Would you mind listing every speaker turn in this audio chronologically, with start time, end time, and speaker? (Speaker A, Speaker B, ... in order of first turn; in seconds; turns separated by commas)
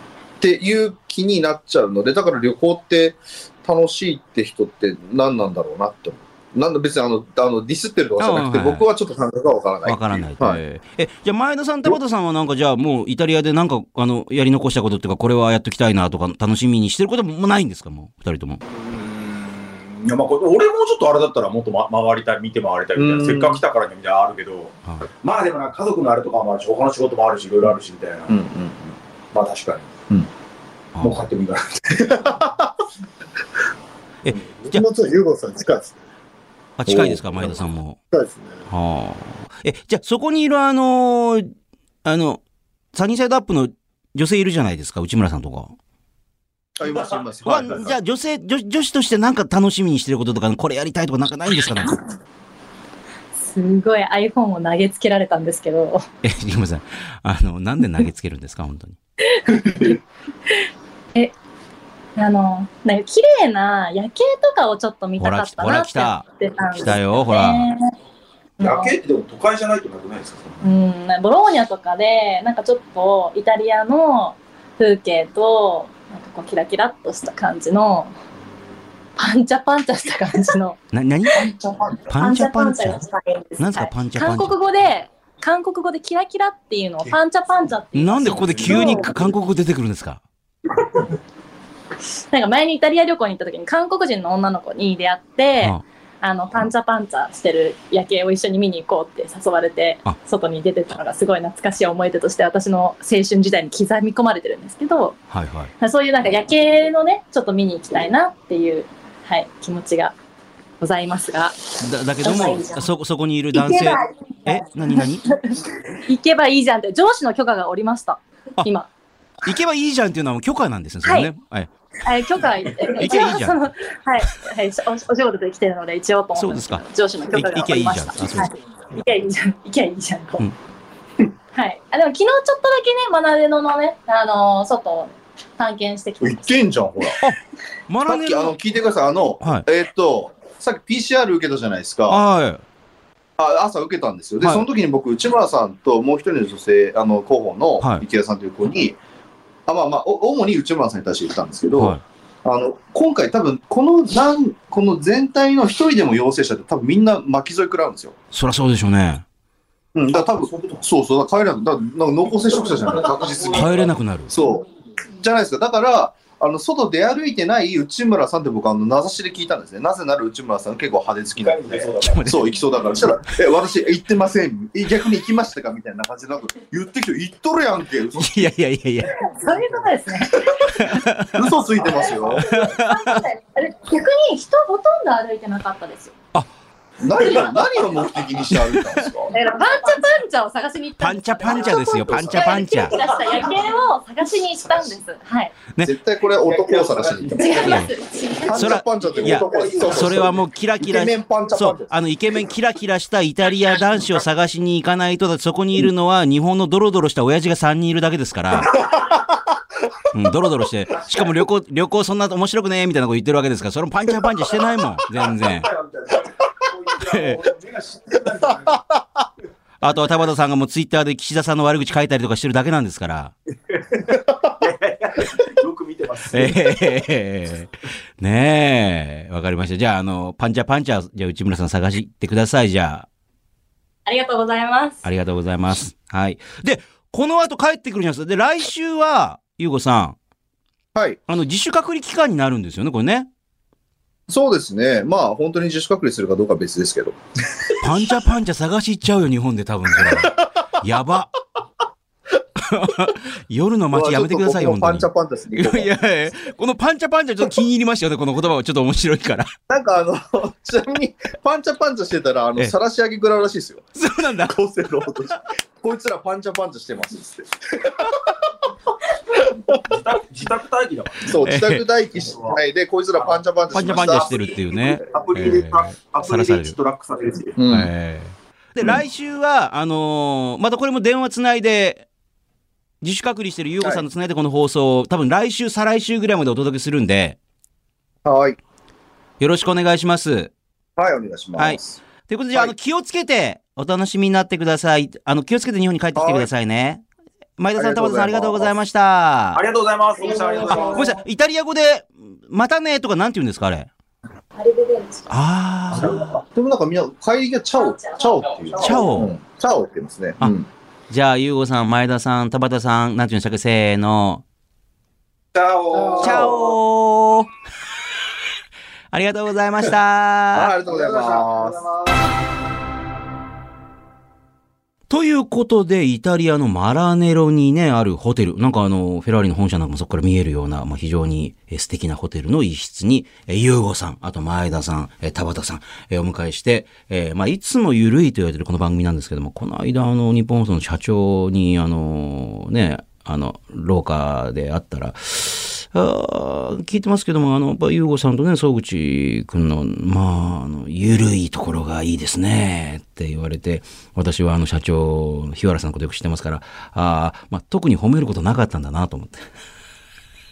Speaker A: 0.4-10.6, Speaker B: 8.2-8.8, Speaker B: 9.8-18.6, Speaker C: 18.7-28.4, Speaker A: 22.9-23.6, Speaker A: 28.3-28.9, Speaker C: 29.3-29.9, Speaker B: 30.9-31.3, Speaker C: 31.0-32.5, Speaker B: 34.2-34.8, Speaker D: 34.6-36.0, Speaker B: 36.8-38.0, Speaker A: 36.9-37.6, Speaker D: 38.1-38.6, Speaker B: 38.7-41.5, Speaker B: 42.0-42.4, Speaker B: 42.9-45.7, Speaker A: 46.8-48.0, Speaker B: 47.4-52.0, Speaker E: 53.4-56.0, Speaker B: 56.2-59.0, Speaker E: 59.3-60.0, Speaker E: 60.5-61.3, Speaker E: 62.1-67.9, Speaker B: 65.2-67.7, Speaker E: 68.6-68.9, Speaker C: 68.6-70.6, Speaker E: 70.6-78.1, Speaker E: 79.2-80.8, Speaker B: 80.9-81.5, Speaker A: 81.5-81.9, Speaker B: 82.1-83.0, Speaker E: 82.2-89.1, Speaker B: 83.6-84.6, Speaker B: 87.9-90.2, Speaker E: 92.3-105.2, Speaker B: 105.3-105.7, Speaker E: 105.8-110.1, Speaker E: 110.8-112.9, Speaker B: 111.8-115.3, Speaker E: 113.5-118.9, Speaker B: 119.4-121.7, Speaker E: 121.0-121.3, Speaker E: 122.0-130.4, Speaker B: 122.8-123.7, Speaker B: 126.3-128.5, Speaker E: 131.5-136.6, Speaker C: 136.2-137.1, Speaker A: 136.3-137.2, Speaker B: 137.2-138.5, Speaker A: 138.1-142.2, Speaker B: 139.4-139.7, Speaker B: 142.1-142.6, Speaker A: 143.4-149.0, Speaker A: 149.7-158.1, Speaker B: 151.8-152.0, Speaker B: 158.3-159.2, Speaker A: 159.9-178.4, Speaker C: 160.1-160.8, Speaker C: 163.0-163.9, Speaker B: 163.5-164.3, Speaker C: 171.3-172.4, Speaker B: 172.0-172.5, Speaker B: 178.2-179.1, Speaker E: 179.0-181.0, Speaker A: 180.3-180.6, Speaker B: 180.6-181.5, Speaker A: 181.3-182.4, Speaker B: 182.2-183.3, Speaker E: 182.5-186.1, Speaker A: 187.0-189.3, Speaker B: 188.5-189.1, Speaker E: 189.3-195.6, Speaker B: 191.0-193.0, Speaker A: 192.1-192.6, Speaker C: 192.9-193.4, Speaker A: 195.8-197.7, Speaker C: 196.4-197.8, Speaker E: 197.3-198.7, Speaker B: 197.6-197.9, Speaker A: 198.3-202.0, Speaker B: 198.5-208.9, Speaker C: 199.0-200.2, Speaker A: 208.7-209.4, Speaker B: 210.1-215.7, Speaker C: 215.1-218.9, Speaker B: 217.0-217.4, Speaker B: 219.8-223.3, Speaker C: 223.7-226.9, Speaker B: 226.3-233.1, Speaker E: 234.1-235.1, Speaker B: 235.0-240.2, Speaker A: 240.9-241.2, Speaker B: 241.3-243.3, Speaker A: 244.3-247.2, Speaker B: 247.8-251.3, Speaker A: 250.0-250.7, Speaker B: 252.6-259.5, Speaker A: 253.9-255.9, Speaker A: 259.7-263.9, Speaker B: 263.9-264.6, Speaker A: 264.4-268.7, Speaker A: 269.3-269.8, Speaker C: 269.9-271.3, Speaker A: 271.2-274.5, Speaker B: 271.4-271.9, Speaker C: 272.2-272.6, Speaker C: 273.2-277.5, Speaker B: 273.7-276.7, Speaker A: 277.6-277.9, Speaker B: 277.7-282.1, Speaker B: 283.0-287.4, Speaker A: 288.2-288.6, Speaker B: 289.4-290.5, Speaker A: 291.0-292.0, Speaker B: 291.6-297.0, Speaker A: 296.1-296.5, Speaker B: 297.6-299.6, Speaker A: 297.8-298.7, Speaker C: 299.5-301.1, Speaker E: 300.2-301.1, Speaker B: 300.7-303.9, Speaker E: 304.6-305.3, Speaker B: 305.3-306.2, Speaker A: 305.9-310.7, Speaker E: 307.9-308.2, Speaker B: 308.8-309.3, Speaker B: 311.1-314.4, Speaker C: 315.5-316.6, Speaker D: 315.9-316.2, Speaker A: 316.0-316.7, Speaker B: 316.2-317.5, Speaker B: 319.1-320.7, Speaker A: 320.5-321.9, Speaker D: 320.9-322.1, Speaker B: 325.1-359.4